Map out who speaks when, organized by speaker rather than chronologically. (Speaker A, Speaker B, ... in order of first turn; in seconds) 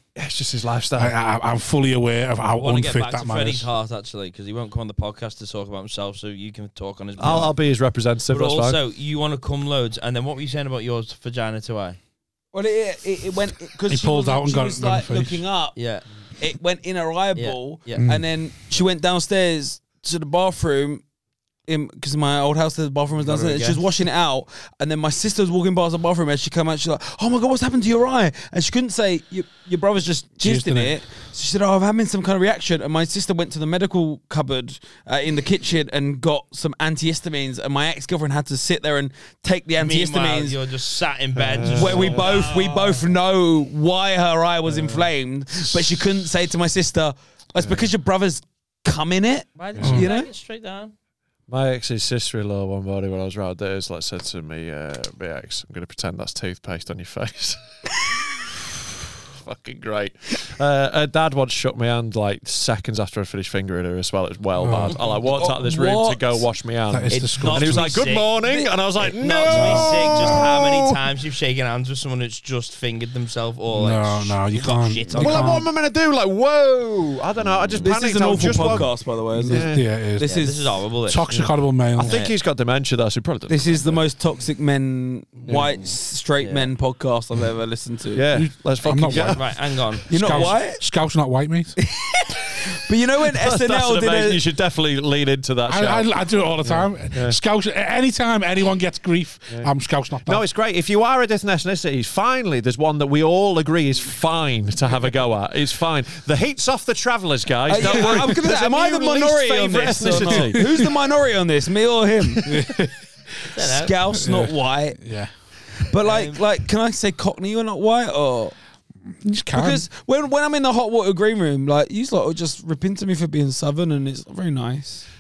Speaker A: 0.2-1.1, 7.2-8.8, 41.4-42.5, 44.7-45.1, 47.6-47.9, 51.5-57.6, 59.2-71.0, 75.1-79.9, 81.3-84.0, 85.5-85.7, 88.1-89.6, 93.3-96.1, 96.6-97.4, 100.3-110.9
Speaker B: 1.0-3.7, 13.9-15.4, 18.0-18.2, 30.4-31.0, 49.8-50.1, 64.6-65.0, 66.9-68.0, 69.5-70.5, 73.7-75.6, 79.5-80.3, 81.1-82.2, 88.3-91.8, 95.7-100.4, 107.8-108.3, 110.2-110.6, 112.5-113.0, 114.1-115.3, 119.2-119.8
Speaker C: 2.6-7.6, 8.3-12.0, 15.8-16.0, 17.4-18.0, 23.3-23.8, 39.8-43.1, 49.6-50.9, 67.4-68.3, 69.0-75.6, 80.2-81.3, 82.0-82.3, 86.4-86.7, 89.3-90.6, 113.5-114.0, 116.0-116.4
Speaker D: 12.5-15.8, 16.4-21.0, 21.7-40.6, 41.7-50.3, 65.1-66.4, 67.1-67.7, 68.4-68.7, 69.5-69.9, 77.8-80.7, 83.5-88.3, 90.1-90.8, 91.8-94.4, 107.7-112.7, 113.6-115.0, 115.8-118.5, 119.5-125.1